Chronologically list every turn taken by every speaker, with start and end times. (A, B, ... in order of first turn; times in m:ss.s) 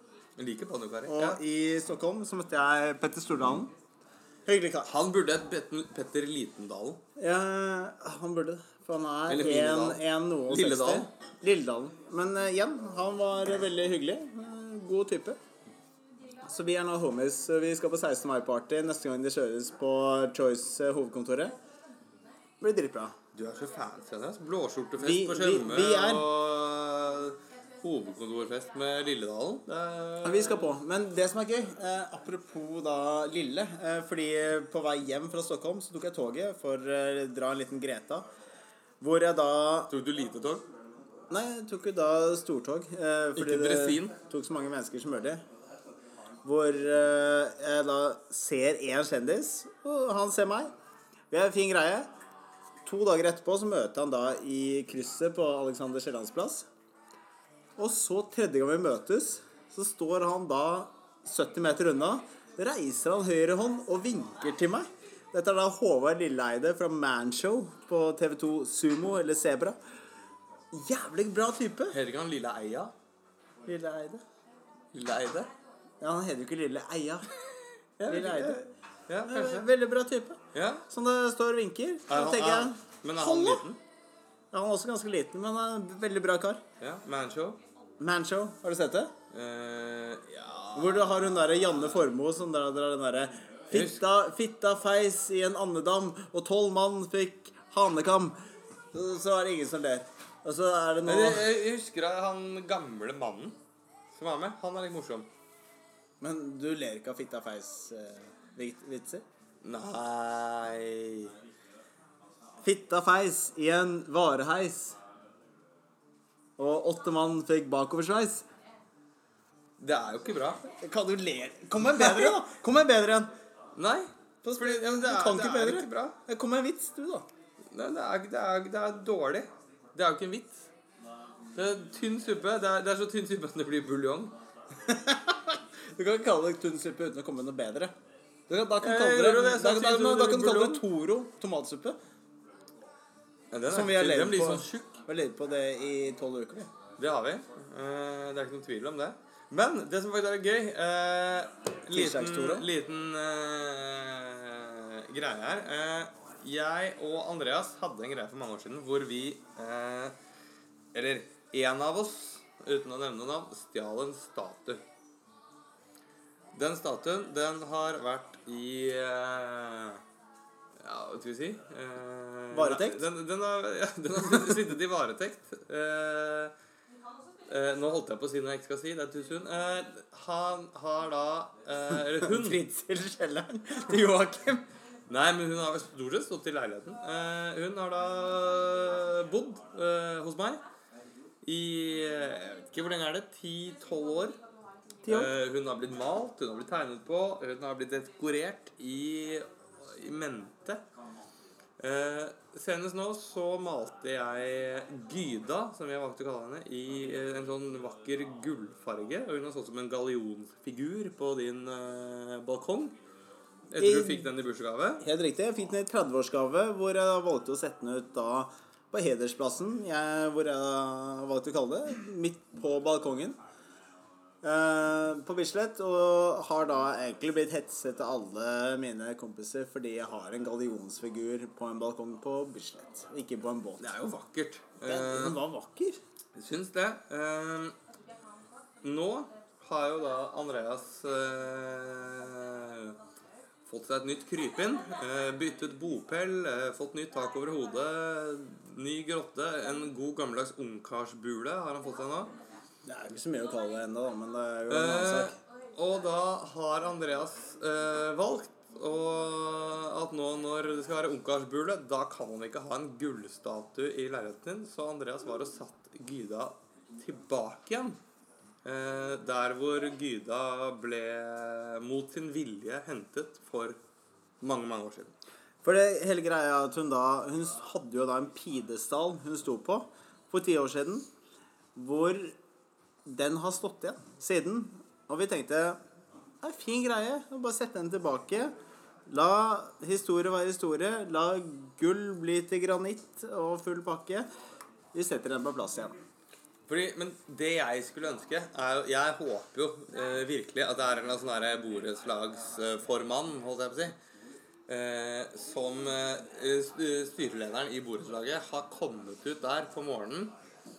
0:00.4-0:01.4 A
0:01.1-0:03.7 B
0:04.5-0:04.9 B
0:04.8-0:07.0 A
0:07.2-0:15.4 B
0:09.3-0:11.1 A
0:16.4-0:21.6 B
0:22.6-0:23.2 B
0:23.3-0:30.7 A
0:25.0-0:26.3 B
0:30.2-0:38.3 B
0:39.0-0:39.9 B
0:39.9-0:40.7 A
0:41.3-0:45.4 B
0:43.4-0:44.1 A
0:46.4-0:50.7 B
0:51.3-0:52.1 B
0:52.8-0:56.7 B
0:57.8-1:09.8 B
1:10.7-1:12.0 B
1:11.9-1:12.9 A
1:13.7-1:14.2 B
1:14.9-1:15.5 A
1:16.0-1:17.3 B
1:18.0-1:18.7 B
1:18.0-1:19.7 A
1:19.3-1:23.6 B
1:20.5-1:20.8 A
1:22.1-1:23.8 A
1:24.5-1:26.6 B
1:26.8-1:27.6 A
1:28.0-1:29.1 B
1:29.3-1:31.2 A
1:30.8-1:38.4 B
1:33.7-1:34.0 A
1:38.9-1:41.5 B
1:41.1-1:43.6 A
1:44.1-1:45.3 A
1:46.2-1:49.2 B
1:49.6-1:51.3 A
1:52.6-1:55.0 B
1:56.6-1:58.4 B
1:59.8-2:00.6 A
2:00.8-2:03.3 B
2:02.0-2:02.3 A
2:03.8-2:06.2 A
2:04.4-2:07.3 B
2:07.7-2:10.7 A
2:11.6-2:14.4 A
2:14.8-2:17.9 B
2:18.5-2:22.0 B
2:18.8-2:20.8 A
2:23.5-2:25.0 A
2:23.7-2:26.7 B
2:27.0-2:40.2 A
2:31.9-2:32.7 B
2:40.9-2:44.8 A
2:46.5-2:50.0 A
2:50.8-2:56.5 A
2:52.5-2:53.1 B
2:57.5-3:02.6 A
3:02.2-3:04.6 B
3:05.1-3:10.6 A
3:11.4-3:14.4 A
3:15.0-3:15.3 B
3:15.1-3:20.8 A
3:21.8-3:33.0 A
3:33.7-3:35.0 A
3:33.8-3:34.3 B
3:35.0-3:43.4 B
3:44.4-3:53.8 B
3:53.8-3:55.4 A
3:54.9-3:56.0 B
3:56.4-3:57.8 A
3:58.8-4:03.0 A
4:03.7-4:12.3 A
4:12.9-4:15.4 B
4:14.7-4:28.0 A
4:28.6-4:33.8 A
4:34.4-4:35.1 A
4:35.6-4:41.1 B
4:41.8-4:42.4 B
4:43.0-4:45.8 B
4:46.4-4:48.5 B
4:49.1-4:54.3 B
4:54.9-4:56.0 B
4:56.7-5:04.0 A
5:04.7-5:10.3 A